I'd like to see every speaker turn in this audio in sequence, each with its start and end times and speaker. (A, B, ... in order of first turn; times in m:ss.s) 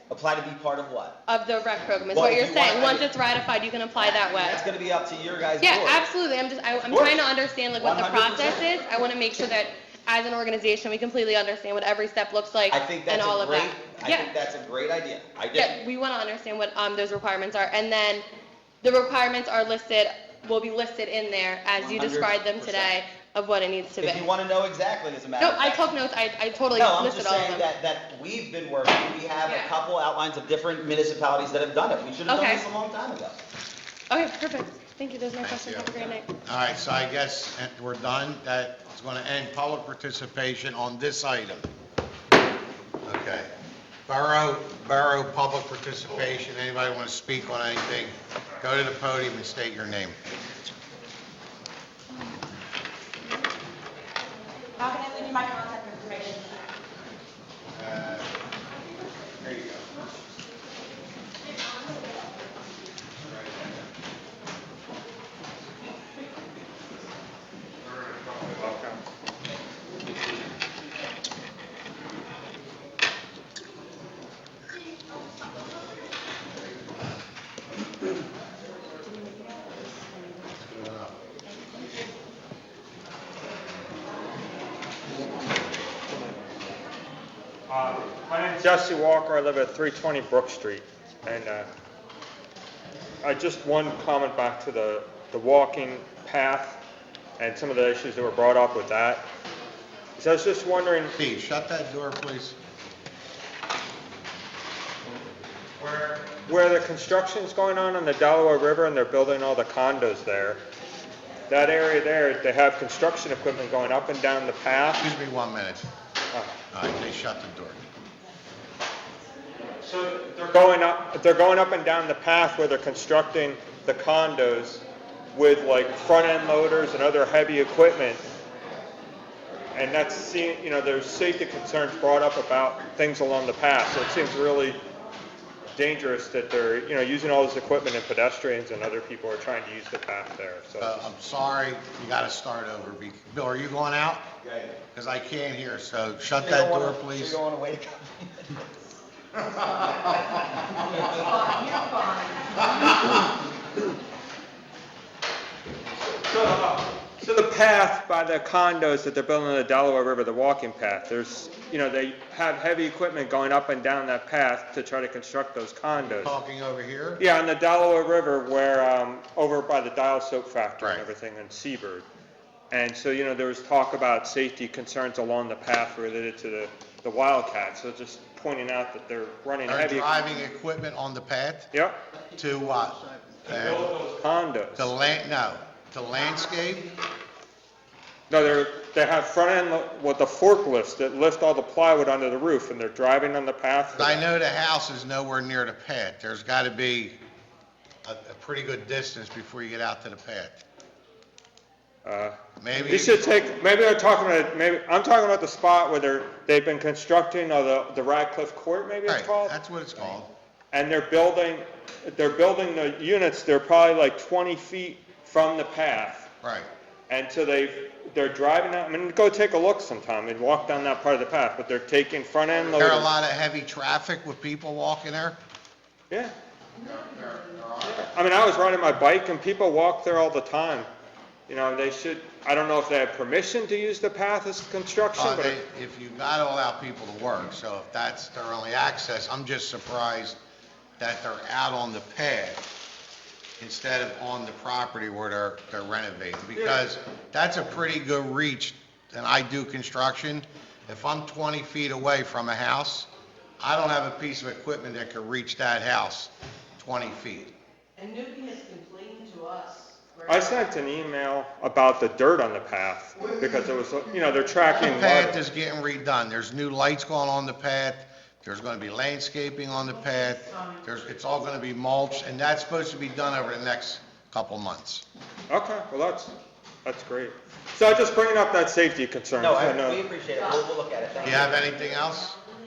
0:00.1-0:01.2 A
0:01.2-0:04.6 B
0:02.1-0:03.1 A
0:04.0-0:06.0 A
0:05.6-0:14.3 B
0:06.9-0:07.2 A
0:07.8-0:08.6 A
0:12.7-0:15.8 A
0:15.5-0:18.3 B
0:18.8-0:24.3 B
0:21.8-0:22.9 A
0:24.0-0:25.8 A
0:25.4-0:27.6 B
0:26.7-0:33.4 A
0:29.4-0:29.7 B
0:32.2-0:32.6 B
0:34.1-0:36.3 B
0:35.4-0:35.9 C
0:36.4-0:41.7 C
0:43.0-0:43.5 C
0:44.1-0:50.2 C
0:54.8-0:56.6 B
0:57.7-0:58.3 C
0:59.4-0:59.9 C
1:03.2-1:03.7 C
1:07.8-1:09.1 D
1:20.5-1:21.1 C
1:27.7-1:31.7 D
1:33.2-1:36.8 D
1:37.4-1:39.2 D
1:40.2-1:41.2 D
1:41.2-1:42.6 C
1:45.8-1:50.6 D
1:51.5-1:55.1 D
1:55.0-1:55.8 C
1:56.7-1:57.8 C
1:59.8-2:08.2 D
2:09.7-2:14.8 D
2:15.7-2:21.0 D
2:20.8-2:24.3 C
2:24.4-2:24.7 A
2:24.9-2:27.4 C
2:26.4-2:28.6 A
2:31.0-2:33.0 E
2:36.2-2:46.4 D
2:46.1-2:47.2 C
2:47.2-2:52.0 D
2:50.8-2:51.1 C
2:52.7-3:00.1 D
2:59.7-3:01.7 C
3:01.7-3:02.0 D
3:02.4-3:03.9 C
3:03.4-3:04.9 D
3:04.8-3:06.9 C
3:08.3-3:14.3 D
3:13.9-3:17.2 C
3:18.0-3:20.6 C
3:22.0-3:29.5 D
3:22.6-3:23.2 C
3:29.0-3:30.3 C
3:30.7-3:36.3 D
3:36.4-3:36.7 C
3:37.1-3:43.1 D
3:42.7-3:45.4 C
3:46.8-3:48.1 C
3:47.8-3:50.9 D
3:51.5-3:55.6 D
3:55.1-4:00.4 C
4:01.0-4:02.6 C
4:03.6-4:13.1 C
4:13.6-4:17.5 C
4:18.0-4:20.4 E
4:20.2-4:25.4 D
4:24.8-4:35.0 C
4:30.0-4:30.8 E
4:35.5-4:36.3 D
4:36.8-4:40.0 D
4:39.4-4:41.8 A
4:40.3-4:42.3 E
4:41.2-4:42.3 C